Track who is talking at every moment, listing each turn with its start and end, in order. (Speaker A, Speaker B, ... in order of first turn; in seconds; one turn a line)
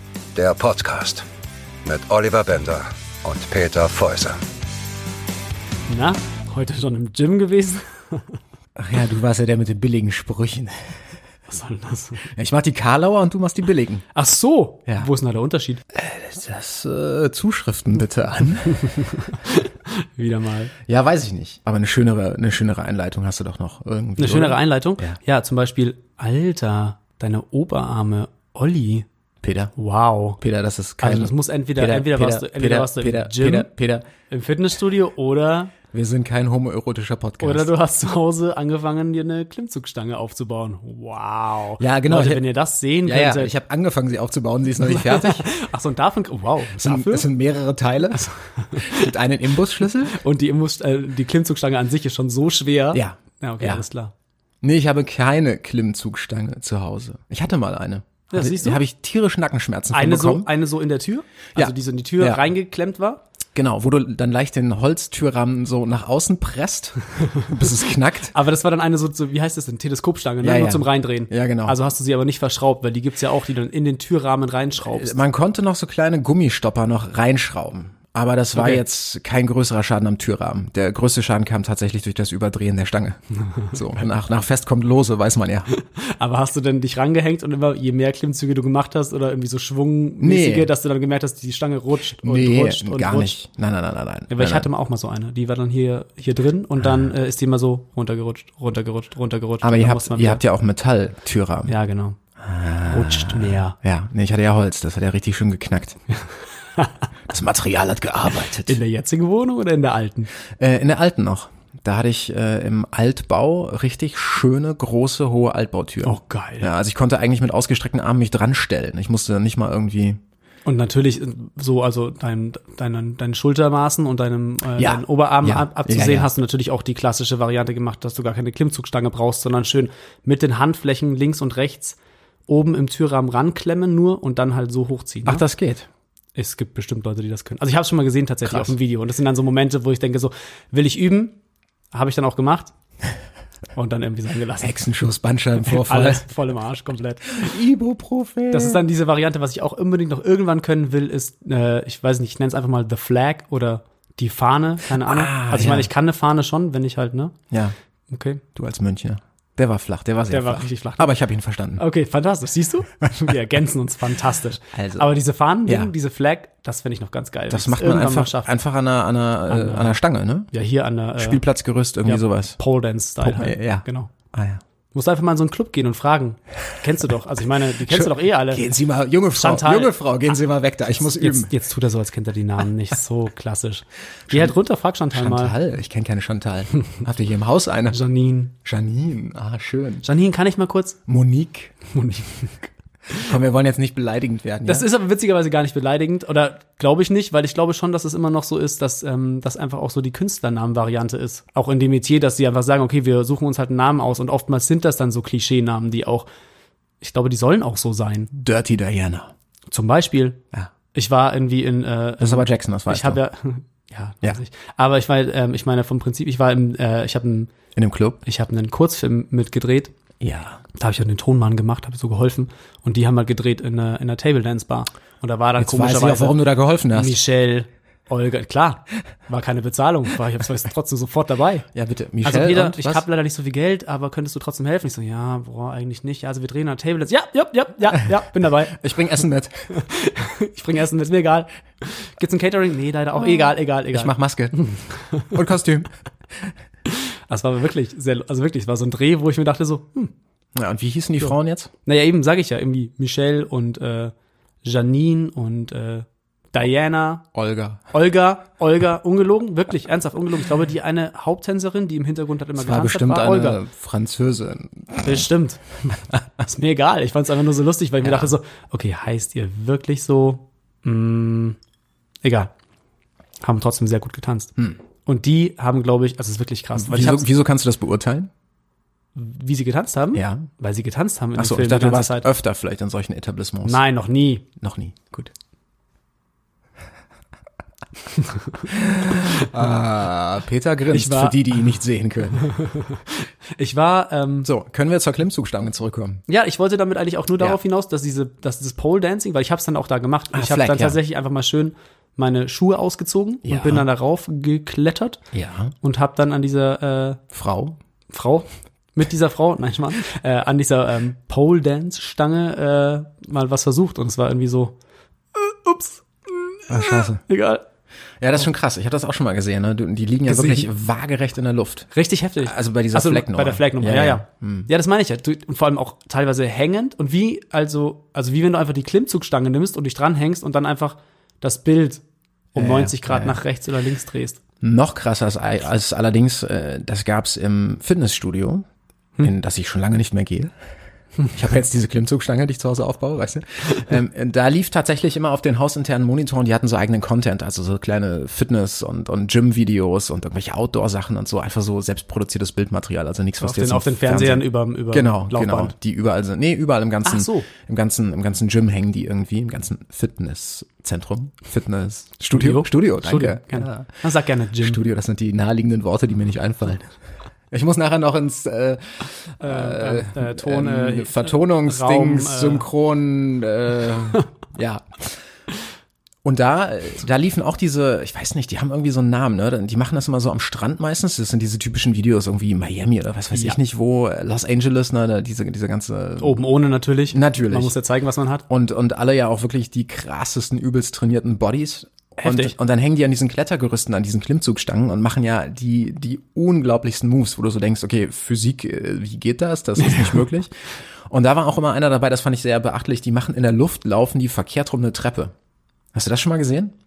Speaker A: 0.3-1.2
Speaker A: 1.9-4.4
Speaker B: 5.9-8.3
Speaker C: 8.8-10.9
Speaker B: 11.5-12.3
Speaker C: 12.3-14.1
Speaker B: 14.2-15.8
Speaker C: 15.9-19.0
Speaker B: 18.8-20.7
Speaker C: 20.9-25.2
Speaker B: 24.2-29.1
Speaker C: 29.4-29.7
Speaker B: 29.8-30.4
Speaker C: 30.4-34.1
Speaker B: 31.0-33.7
Speaker B: 34.3-35.7
Speaker C: 35.9-37.7
Speaker B: 37.4-43.5
Speaker C: 41.8-42.5
Speaker C: 43.0-45.5
Speaker B: 44.8-47.3
Speaker C: 46.8-50.2
Speaker B: 48.1-49.1
Speaker B: 50.1-54.1
Speaker C: 52.9-53.9
Speaker C: 54.6-60.5
Speaker B: 58.3-58.8
Speaker B: 59.9-63.2
Speaker C: 61.5-62.4
Speaker C: 63.5-68.3
Speaker B: 68.3-75.2
Speaker C: 70.4-71.8
Speaker C: 74.8-83.2
Speaker B: 78.6-78.8
Speaker C: 83.7-85.7
Speaker B: 85.8-93.3
Speaker C: 90.2-90.7
Speaker C: 92.2-94.7
Speaker B: 94.3-100.4
Speaker C: 96.8-97.1
Speaker C: 99.6-101.8
Speaker B: 101.7-102.2
Speaker C: 102.4-106.0
Speaker B: 102.9-103.8
Speaker C: 107.3-108.8
Speaker B: 108.7-110.3
Speaker C: 110.6-120.2
Speaker B: 116.0-116.7
Speaker B: 120.7-132.0
Speaker C: 124.8-126.3
Speaker B: 132.5-135.4
Speaker C: 135.3-135.9
Speaker B: 136.3-141.4
Speaker C: 138.4-138.7
Speaker B: 141.9-142.7
Speaker B: 143.8-144.8
Speaker C: 144.6-146.3
Speaker B: 145.6-147.5
Speaker C: 147.3-148.8
Speaker B: 148.5-157.3
Speaker C: 155.0-155.9
Speaker B: 158.1-158.4
Speaker C: 158.6-161.8
Speaker B: 160.3-161.1
Speaker B: 161.8-168.5
Speaker C: 164.7-165.1
Speaker C: 165.7-165.9
Speaker C: 167.5-170.5
Speaker B: 169.5-170.0
Speaker B: 170.5-171.4
Speaker C: 171.2-172.6
Speaker B: 172.1-174.1
Speaker C: 173.2-174.6
Speaker B: 174.9-178.6
Speaker C: 177.9-181.5
Speaker B: 179.3-179.9
Speaker B: 181.0-185.5
Speaker C: 184.3-184.6
Speaker C: 185.1-188.0
Speaker B: 187.9-188.5
Speaker C: 188.7-190.1
Speaker B: 190.0-191.0
Speaker C: 191.1-191.8
Speaker B: 191.9-193.2
Speaker C: 193.1-194.9
Speaker B: 194.7-206.3
Speaker B: 207.0-208.3
Speaker C: 208.3-209.3
Speaker B: 209.7-210.4
Speaker B: 210.9-217.5
Speaker C: 212.2-213.2
Speaker C: 217.8-218.2
Speaker B: 218.2-219.9
Speaker C: 220.2-220.6
Speaker B: 220.8-226.4
Speaker C: 225.6-227.2
Speaker B: 226.9-231.7
Speaker C: 231.8-233.0
Speaker B: 232.2-238.8
Speaker C: 238.7-239.8
Speaker B: 239.7-245.3
Speaker C: 243.2-244.7
Speaker C: 245.2-246.6
Speaker B: 246.9-250.1
Speaker C: 250.6-251.7
Speaker B: 251.9-257.3
Speaker C: 257.4-257.8
Speaker B: 257.9-263.6
Speaker C: 262.6-265.2
Speaker B: 265.0-265.6
Speaker B: 266.4-271.6
Speaker C: 268.0-268.3
Speaker B: 272.2-272.5
Speaker B: 273.4-274.5
Speaker B: 275.1-277.3
Speaker C: 276.8-278.3
Speaker B: 279.1-282.3
Speaker C: 280.1-280.5
Speaker C: 281.4-283.8
Speaker B: 283.6-284.4
Speaker C: 284.6-285.3
Speaker C: 288.7-292.5
Speaker B: 290.9-291.4
Speaker B: 292.4-294.5
Speaker C: 294.4-296.2
Speaker B: 296.3-305.2
Speaker C: 300.3-301.0
Speaker C: 303.4-303.9
Speaker C: 305.3-305.8
Speaker B: 305.8-307.2
Speaker C: 307.3-307.8
Speaker B: 308.1-314.7
Speaker B: 315.4-317.6
Speaker C: 316.7-317.2
Speaker C: 318.2-321.9
Speaker B: 320.3-320.7
Speaker B: 321.9-332.0
Speaker C: 322.4-324.7
Speaker B: 332.5-334.4
Speaker C: 332.6-333.4
Speaker C: 334.6-338.6
Speaker C: 339.2-340.5
Speaker C: 341.3-363.9
Speaker B: 353.4-355.7
Speaker B: 357.0-357.5
Speaker B: 362.3-364.8
Speaker C: 364.6-366.9
Speaker C: 367.5-375.2
Speaker B: 369.4-372.7
Speaker C: 376.2-386.4
Speaker B: 383.3-383.6
Speaker B: 386.2-388.4
Speaker C: 387.1-387.7
Speaker C: 388.5-400.5
Speaker B: 392.2-392.5
Speaker B: 399.8-400.2
Speaker C: 401.1-405.3
Speaker C: 405.9-406.8